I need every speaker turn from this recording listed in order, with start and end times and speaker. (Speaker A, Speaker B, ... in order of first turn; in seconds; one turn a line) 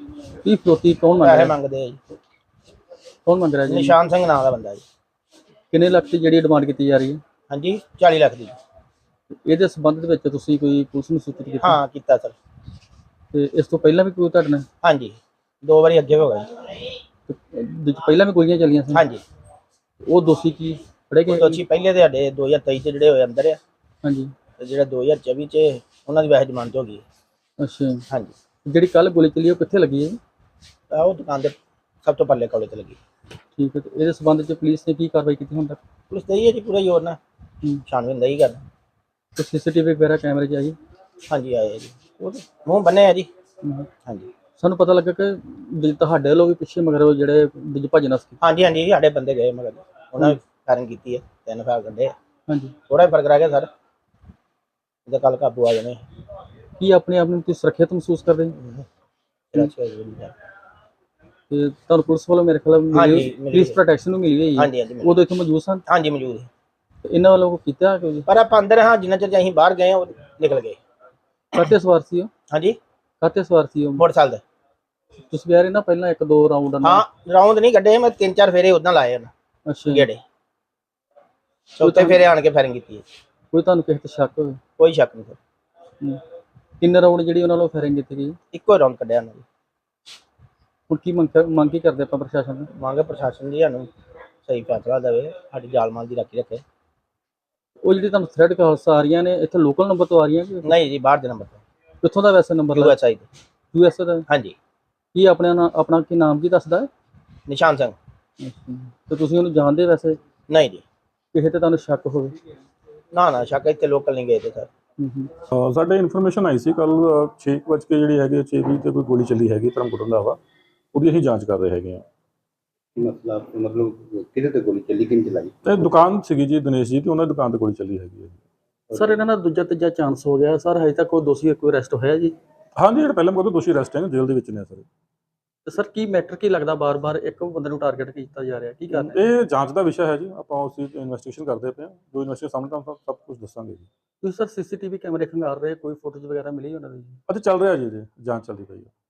Speaker A: 0.4-1.5
Speaker B: 1.2-2.0
Speaker A: 3.2-4.0
Speaker B: 3.7-4.8
Speaker A: 5.7-7.2
Speaker B: 7.5-8.6
Speaker A: 9.4-11.8
Speaker B: 11.6-12.3
Speaker A: 13.3-14.7
Speaker B: 14.8-16.7
Speaker A: 17.3-19.1
Speaker B: 18.9-19.2
Speaker A: 20.0-21.6
Speaker B: 21.3-23.6
Speaker A: 24.0-24.3
Speaker B: 24.6-27.0
Speaker A: 27.6-28.0
Speaker A: 28.6-30.2
Speaker B: 30.9-33.0
Speaker A: 33.6-35.8
Speaker B: 36.1-37.2
Speaker B: 37.9-38.6
Speaker A: 39.4-40.8
Speaker B: 41.3-43.3
Speaker A: 43.6-43.9
Speaker A: 44.6-48.4
Speaker B: 48.4-52.1
Speaker A: 52.5-52.7
Speaker B: 52.9-53.7
Speaker B: 55.1-56.0
Speaker A: 56.8-58.5
Speaker B: 58.6-58.9
Speaker B: 59.5-60.3
Speaker A: 61.5-65.8
Speaker B: 62.9-63.8
Speaker B: 64.5-65.2
Speaker B: 65.9-66.5
Speaker A: 67.0-68.3
Speaker B: 68.3-70.8
Speaker A: 71.5-72.3
Speaker B: 72.5-72.8
Speaker A: 73.2-74.0
Speaker B: 74.0-74.4
Speaker A: 75.3-77.0
Speaker B: 76.8-79.3
Speaker A: 79.7-80.1
Speaker B: 79.9-80.2
Speaker B: 81.8-83.0
Speaker A: 81.8-82.2
Speaker A: 83.5-84.6
Speaker B: 84.8-85.4
Speaker A: 86.8-88.4
Speaker B: 88.5-89.4
Speaker A: 90.9-92.7
Speaker B: 92.7-93.9
Speaker B: 94.4-96.6
Speaker A: 97.8-100.7
Speaker B: 100.6-101.6
Speaker A: 102.0-102.9
Speaker B: 102.7-103.3
Speaker A: 103.7-104.2
Speaker B: 104.3-104.5
Speaker A: 105.1-106.9
Speaker B: 107.5-108.0
Speaker A: 108.4-110.2
Speaker B: 110.5-110.8
Speaker A: 111.3-112.3
Speaker B: 113.1-114.7
Speaker A: 115.0-115.3
Speaker C: 115.5-120.4
Speaker C: 120.9-122.0
Speaker D: 123.0-125.5
Speaker C: 125.6-128.4
Speaker D: 128.9-129.2
Speaker A: 128.9-132.3
Speaker C: 132.8-134.8
Speaker A: 135.7-139.3
Speaker C: 138.9-143.9
Speaker A: 144.2-147.2
Speaker C: 147.3-148.9